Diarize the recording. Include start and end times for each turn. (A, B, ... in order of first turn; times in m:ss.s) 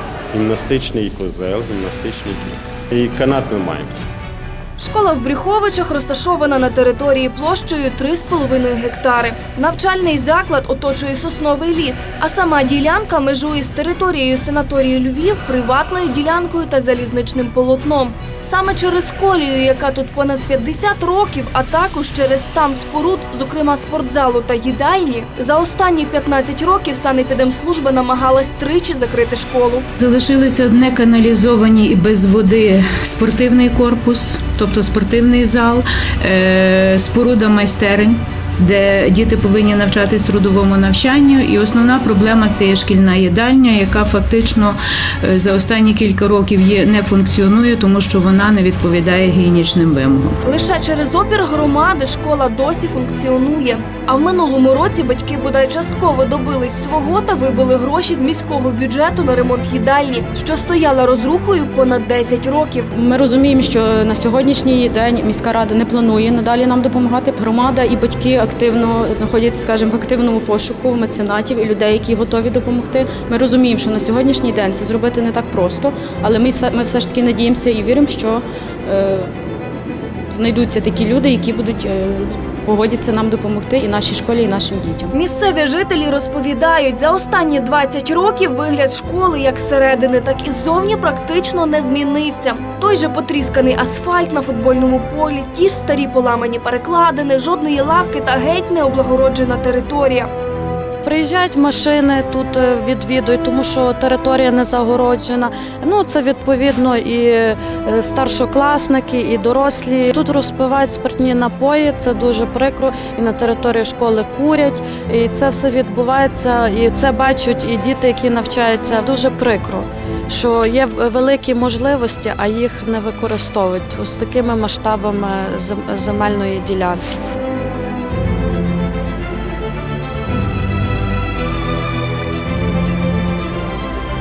0:00.3-0:03.9 A
0:04.8-0:29.9 B
0:30.0-0:50.4 C
0:50.4-1:02.9 B
1:02.9-1:19.3 D
1:20.3-1:25.1 D
1:25.1-1:40.3 B
1:41.0-2:07.2 E